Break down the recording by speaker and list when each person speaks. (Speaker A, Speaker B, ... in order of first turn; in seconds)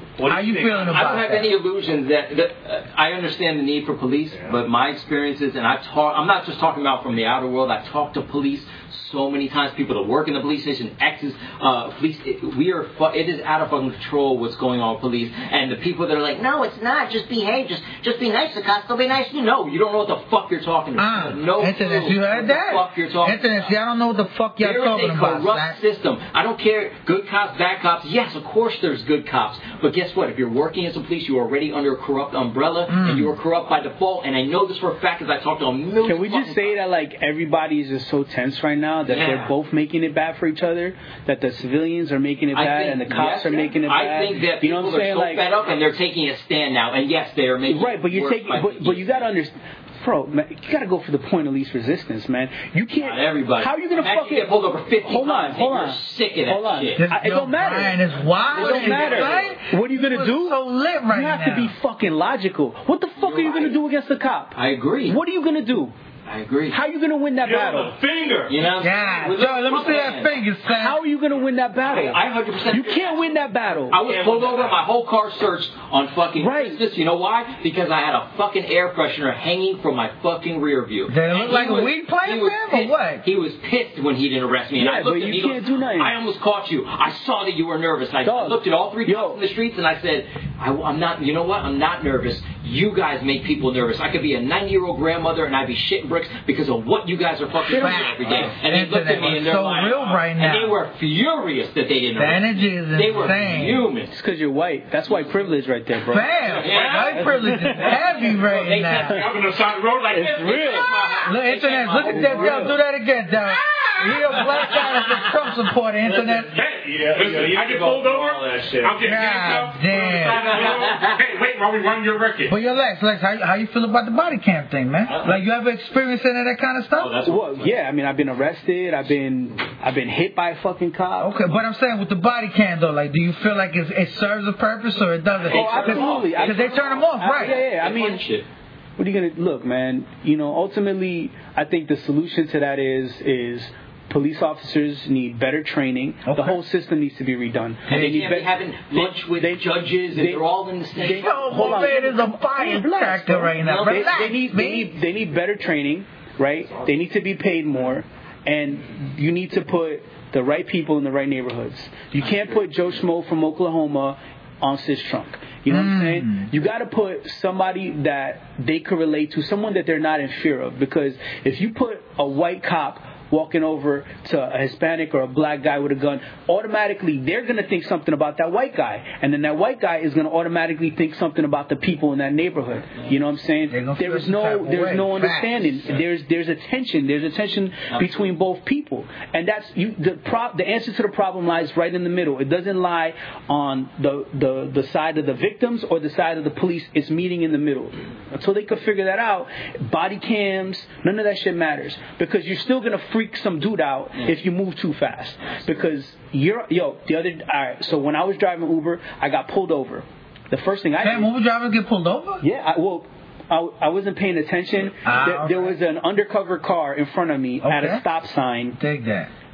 Speaker A: 0.2-1.1, 4.3-4.6, 67.4-68.6, 74.0-74.8, 116.7-119.2
Speaker B: 0.3-1.5, 21.0-25.8, 32.9-33.3, 57.0-61.8, 68.8-71.0, 81.1-83.2, 97.7-100.8, 102.2-103.9, 106.1-109.3, 111.2-116.6, 119.0-120.7, 122.5-127.2, 131.2-137.6, 146.3-146.6, 151.0-155.0, 165.7-166.5, 183.7-185.8, 211.0-212.4, 215.0-215.8, 217.6-218.1, 218.8-219.3
Speaker C: 0.8-23.7, 24.6-36.8, 39.1-39.5, 42.5-49.3, 53.0-57.0, 58.5-59.6, 63.2-63.8, 64.5-65.2, 66.3-66.8, 68.5-70.3, 71.8-73.4, 73.9-104.1, 106.4-107.3, 107.9-109.5, 110.2-112.7, 120.5-121.2, 125.1-125.4, 127.0-127.8, 135.5-138.5, 147.9-151.9, 153.6-154.3, 187.9-188.3
Speaker D: 36.0-45.5, 47.7-60.6, 61.1-65.9, 66.7-68.0, 70.7-74.0, 76.4-76.8, 84.8-86.2, 88.2-89.4, 97.7-98.5, 104.1-106.5, 107.1-108.0, 110.1-111.2, 112.0-112.8, 127.2-131.4, 135.5-138.2, 139.0-211.3, 212.4-218.8
Speaker E: 116.6-122.5